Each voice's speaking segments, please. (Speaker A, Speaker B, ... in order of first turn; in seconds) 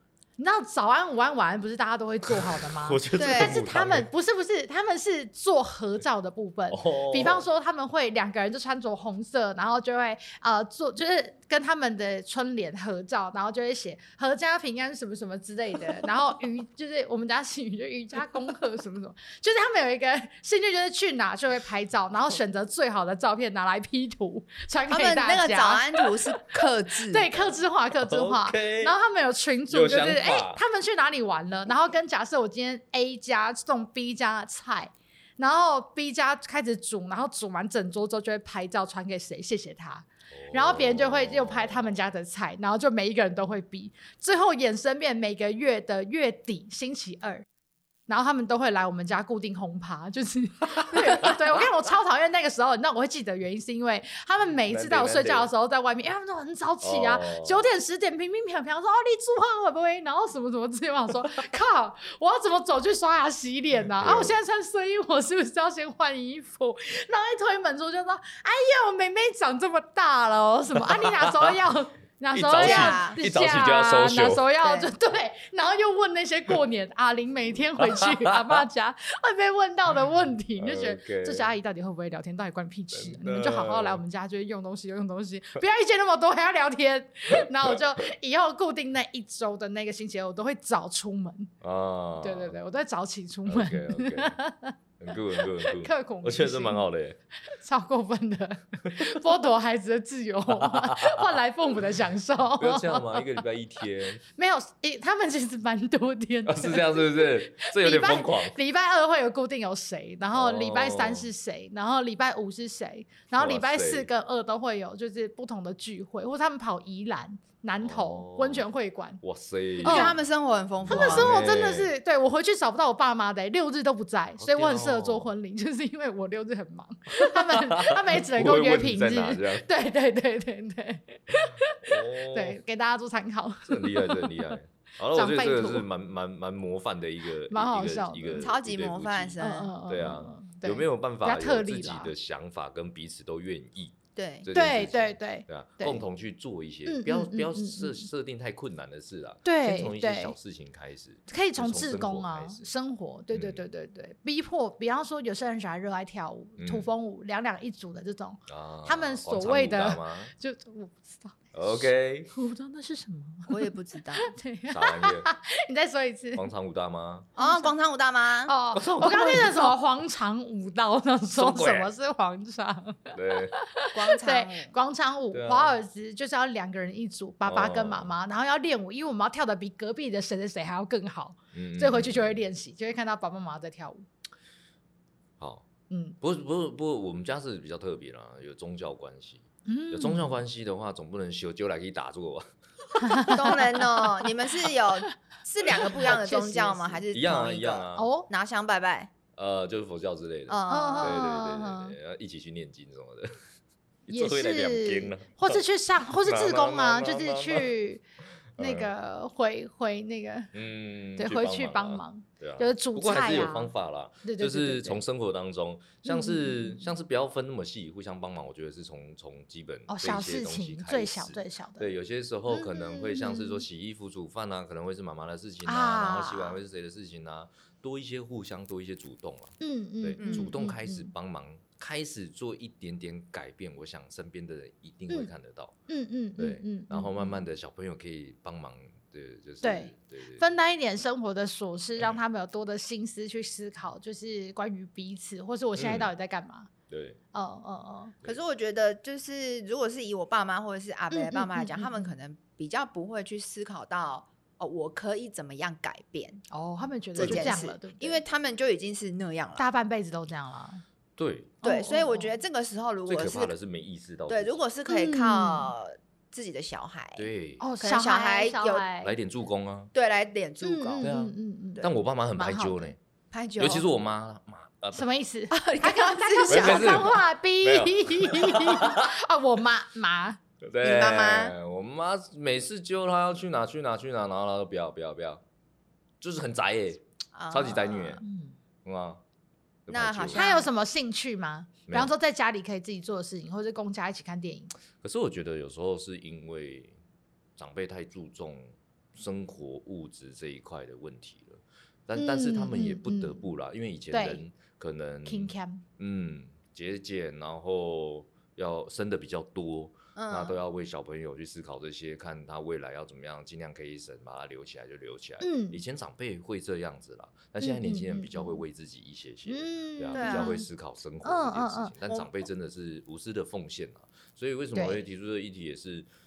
Speaker A: 0.4-26.5, 27.1-47.4, 48.1-91.5, 92.2-94.8, 95.4-96.8, 97.5-103.4, 104.3-119.2, 119.8-120.2, 120.9-131.8, 132.3-134.6, 135.1-135.9, 137.5-138.5, 139.4-142.1, 144.5-146.0, 146.8-148.1, 149.4-150.3, 151.3-166.5, 167.3-167.7, 168.5-184.0, 185.9-186.2, 189.7-190.3, 193.0-194.3, 195.8-197.0, 197.9-198.3, 200.7-201.9, 204.1-208.0, 208.6-210.5, 211.2-215.0, 216.0-216.8, 219.9-221.9, 222.5-223.6, 225.6-226.6, 229.6-231.1, 235.9-237.4, 239.6-246.7, 247.3-248.1, 251.1-252.1, 256.5-258.2, 259.6-260.8, 261.6-262.3, 264.9-265.7, 267.6-269.1, 270.6-272.9, 274.9-280.4, 288.2-288.5, 290.3-294.7, 302.1-303.5, 304.1-304.4, 305.2-305.8, 315.4-315.8, 317.6-318.6, 319.5-320.6, 321.2-321.9, 324.7-325.0
Speaker B: 2.2-4.1, 6.7-7.5, 28.0-28.9, 29.7-30.6, 40.3-42.0, 50.8-51.6, 54.7-55.5, 56.8-57.6, 63.9-64.4, 70.7-71.5, 72.3-74.5, 77.8-78.6, 80.6-81.5, 82.9-84.0, 87.3-87.8, 91.6-92.5, 93.5-94.4, 95.0-97.2, 100.5-101.2, 102.5-104.2, 106.5-108.5, 110.3-111.3, 113.3-114.1, 117.8-118.7, 119.2-120.2, 120.8-121.9, 124.4-125.3, 127.2-129.7, 131.8-132.6, 133.6-152.7, 153.3-153.6, 156.6-156.9, 158.5-160.3, 161.5-162.3, 164.7-165.3, 166.3-167.3, 168.7-169.8, 171.3-171.9, 173.1-173.5, 175.3-175.8, 177.4-178.2, 181.5-182.4, 185.4-185.7, 186.2-193.3, 197.1-198.1, 199.3-203.3, 204.1-205.6, 206.2-207.7, 208.6-208.9, 210.5-235.7, 236.4-240.4, 245.8-246.1, 246.9-247.2, 257.1-257.6, 261.2-261.6, 263.1-264.6, 267.2-267.6, 269.0-269.9, 271.0-273.0, 273.6-275.1, 276.5-279.1, 280.6-285.4, 286.2-288.2, 288.8-289.2, 289.9-290.4, 295.0-297.0, 297.6-326.1
Speaker C: 3.2-3.6, 24.9-27.4, 72.6-73.2, 74.6-74.9, 119.8-121.3, 138.3-139.7, 144.2-144.5, 163.5-164.3, 167.3-168.5, 173.9-174.7, 193.3-199.1, 200.5-201.2, 230.2-230.5, 248.2-256.4, 257.1-259.6, 261.6-263.5, 264.3-268.9, 269.9-271.1, 273.3-273.9, 275.5-277.1, 280.8-281.6, 287.3-288.2, 289.9-290.7, 310.1-310.6, 320.1-320.5